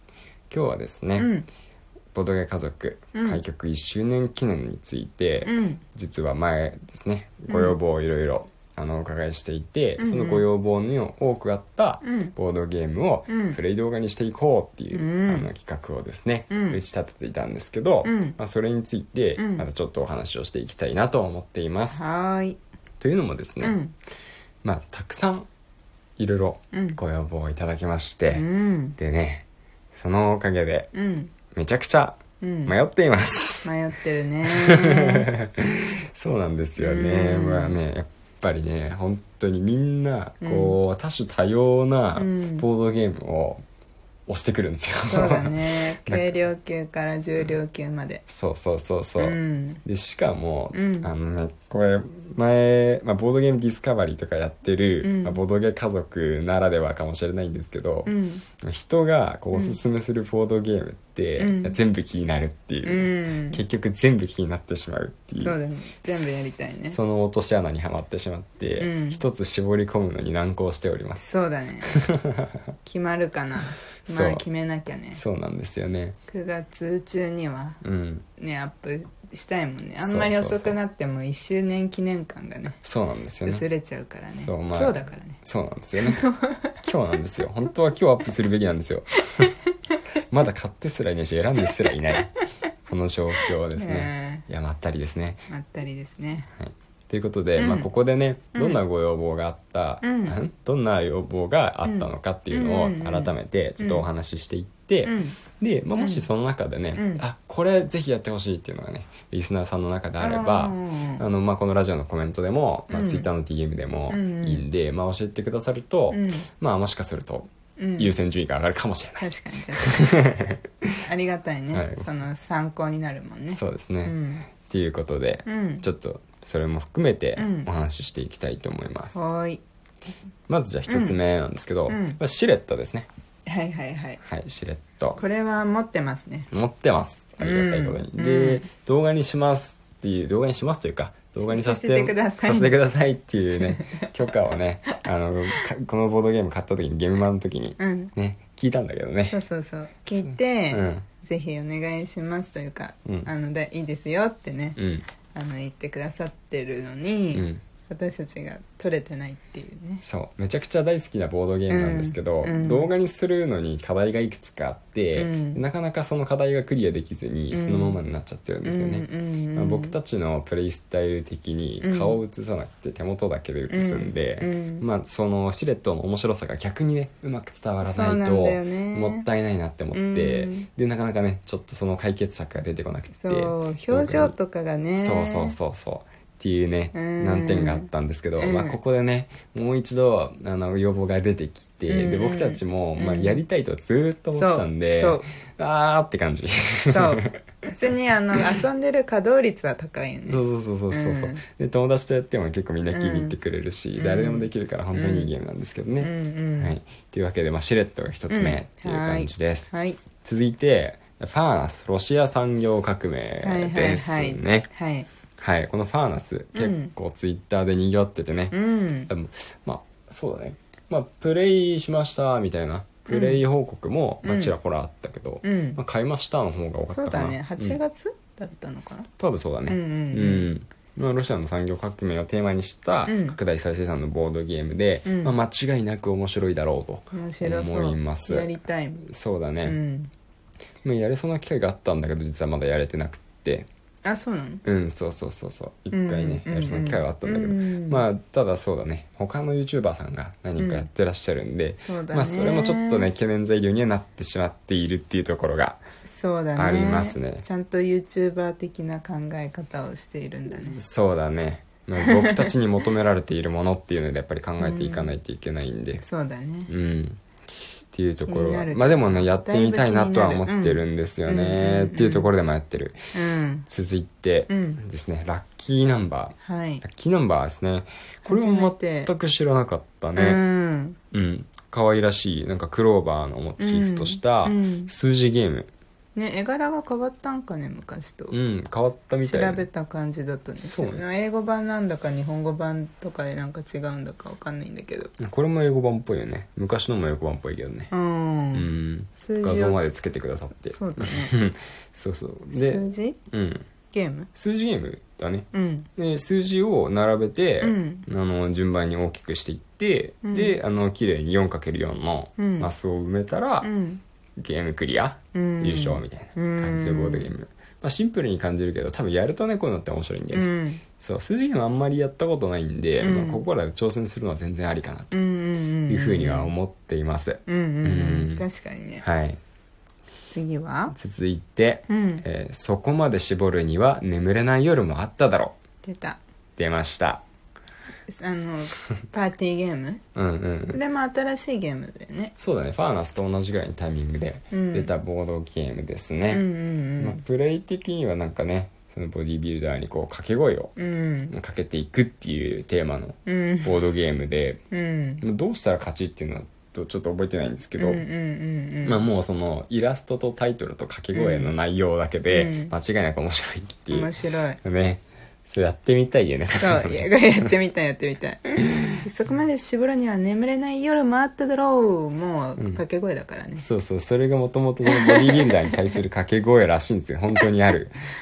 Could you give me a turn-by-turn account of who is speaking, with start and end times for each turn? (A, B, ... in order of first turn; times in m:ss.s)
0:00.5-0:01.3 A
0:01.2-0:01.5 B
0:02.1-0:22.0 A
0:03.1-0:03.4 B
0:05.4-0:05.8 B
0:07.5-0:07.8 B
0:10.0-0:10.5 B
0:12.0-0:12.3 B
0:13.3-0:13.6 B
0:14.9-0:15.5 B
0:16.5-0:16.8 B
0:18.0-0:18.4 B
0:19.4-0:19.6 B
0:21.9-0:22.6 B
0:23.0-0:23.8 A
0:23.6-0:23.9 B
0:24.6-0:25.5 A
0:26.2-0:28.5 A
0:26.7-0:27.0 B
0:28.3-0:29.0 B
0:29.0-0:30.9 A
0:30.9-0:31.3 B
0:31.5-0:33.7 A
0:32.4-0:32.7 B
0:33.6-0:35.3 B
0:34.4-0:43.6 A
0:36.8-0:37.8 B
0:40.4-0:40.8 B
0:42.2-0:42.7 B
0:44.3-0:46.4 A
0:45.1-0:48.2 B
0:48.3-1:11.3 A
0:49.2-0:49.8 B
0:50.7-0:51.1 B
0:55.0-0:55.4 B
0:58.1-0:58.4 B
0:59.5-0:59.8 B
1:01.4-1:01.8 B
1:02.8-1:03.6 B
1:05.4-1:07.0 B
1:08.8-1:09.2 B
1:11.2-1:12.0 B
1:11.9-1:12.6 A
1:12.8-1:15.2 B
1:14.1-1:14.4 A
1:15.1-1:16.2 A
1:16.3-1:17.8 B
1:17.8-1:18.2 A
1:18.4-1:22.8 B
1:20.0-1:20.8 A
1:22.8-1:23.7 A
1:23.4-1:25.4 B
1:24.3-1:26.2 A
1:26.0-1:26.8 B
1:26.8-1:29.5 A
1:30.2-1:32.3 A
1:32.9-1:35.5 A
1:33.8-1:34.4 B
1:35.5-1:36.5 B
1:36.5-2:00.9 A
1:37.6-1:37.9 B
1:38.6-1:38.8 B
1:40.0-1:40.3 B
1:41.8-1:44.1 B
1:45.0-1:45.4 B
1:46.0-1:46.3 B
1:47.0-1:47.2 B
1:50.2-1:51.2 B
1:52.9-1:53.3 B
1:54.1-1:54.6 B
1:56.1-1:56.5 B
1:57.8-1:58.1 B
1:59.2-2:00.2 B
2:01.0-2:04.5 B
2:01.7-2:02.1 A
2:03.5-2:09.2 A
2:05.5-2:05.8 B
2:07.4-2:07.7 B
2:09.1-2:09.6 B
2:10.5-2:13.1 A
2:10.9-2:11.2 B
2:11.9-2:12.2 B
2:13.5-2:14.2 B
2:14.2-2:15.2 A
2:15.2-2:16.5 B
2:16.5-2:29.4 A
2:17.4-2:18.7 B
2:21.5-2:22.8 B
2:23.4-2:24.1 B
2:27.8-2:28.1 B
2:29.3-2:34.8 B
2:30.2-2:31.0 A
2:33.0-2:33.3 A
2:34.8-2:35.0 A
2:35.3-2:40.0 B
2:37.3-2:37.6 A
2:40.0-3:04.4 A
2:41.7-2:42.9 B
2:45.2-2:45.6 B
2:47.5-2:48.0 B
2:48.6-2:49.9 B
2:51.8-2:52.2 B
2:53.7-2:54.8 B
2:57.8-2:59.2 B
2:59.9-3:00.7 B
3:03.2-3:05.6 B
3:05.0-3:17.4 A
3:06.9-3:08.8 B
3:11.9-3:13.4 B
3:14.3-3:15.2 B
3:16.9-3:21.4 B
3:20.3-3:34.7 A
3:22.9-3:23.4 B
3:24.0-3:25.3 B
3:26.0-3:26.8 B
3:28.3-3:30.0 B
3:33.4-3:35.1 B
3:35.4-3:38.6 A
3:36.5-3:36.9 B
3:38.5-3:39.1 B
3:39.1-3:47.8 A
3:43.1-3:43.4 B
3:44.2-3:44.6 B
3:45.4-3:45.8 B
3:46.9-3:49.1 B
3:49.2-3:59.8 A
3:49.7-3:50.5 B
3:53.1-3:53.4 B
3:55.0-3:55.3 B
3:57.1-3:59.1 B
3:59.6-4:00.1 B
4:00.8-4:03.7 A
4:04.0-4:04.6 B
4:04.6-4:15.8 A
4:05.9-4:08.1 B
4:10.6-4:10.9 B
4:11.8-4:13.1 B
4:16.1-4:20.8 B
4:16.6-4:17.4 A
4:20.5-4:26.0 A
4:22.0-4:22.5 B
4:24.6-4:25.1 B
4:26.0-4:26.7 B
4:26.7-4:27.2 A
4:27.9-4:33.0 A
4:28.2-4:32.3 B
4:33.1-4:33.7 B
4:33.7-4:40.4 A
4:34.5-4:34.8 B
4:36.4-4:36.8 B
4:38.2-4:39.1 B
4:40.2-4:41.0 B
4:41.1-4:45.7 A
4:43.6-4:44.9 B
4:46.1-4:48.4 B
4:48.3-4:49.7 A
4:49.2-4:55.1 B
4:50.6-4:51.0 A
4:55.2-4:57.9 A
4:57.9-4:58.7 B
4:58.5-5:03.7 A
4:59.2-4:59.9 B
5:00.6-5:01.3 B
5:02.5-5:03.2 B
5:03.9-5:04.3 B
5:04.3-5:13.7 A
5:05.5-5:05.9 B
5:07.6-5:08.1 B
5:10.2-5:10.6 B
5:12.4-5:12.7 B
5:13.6-5:14.0 B
5:14.4-5:25.2 A
5:15.3-5:17.3 B
5:20.3-5:20.8 B
5:23.0-5:23.4 B
5:25.1-5:26.5 B
5:25.9-5:28.4 A
5:27.4-5:29.0 B
5:29.0-5:29.4 A
5:30.3-5:30.9 B
5:30.9-5:35.6 A
5:31.9-5:32.2 B
5:35.8-5:36.2 B
5:36.6-5:37.2 A
5:38.1-5:40.0 B
5:40.1-5:40.8 A
5:40.7-5:42.3 B
5:42.4-5:46.4 A
5:44.5-5:44.9 B
5:46.3-5:47.2 B
5:47.0-5:50.7 A
5:50.8-5:51.3 B
5:51.3-5:54.6 A
5:53.2-5:53.8 B
5:54.7-5:55.2 B
5:55.2-5:58.0 A
5:57.8-5:59.0 B
5:58.8-6:07.1 A
6:01.1-6:01.5 B
6:02.3-6:02.7 B
6:03.9-6:04.6 B
6:06.6-6:13.6 B
6:13.6-6:18.0 A
6:14.9-6:15.7 B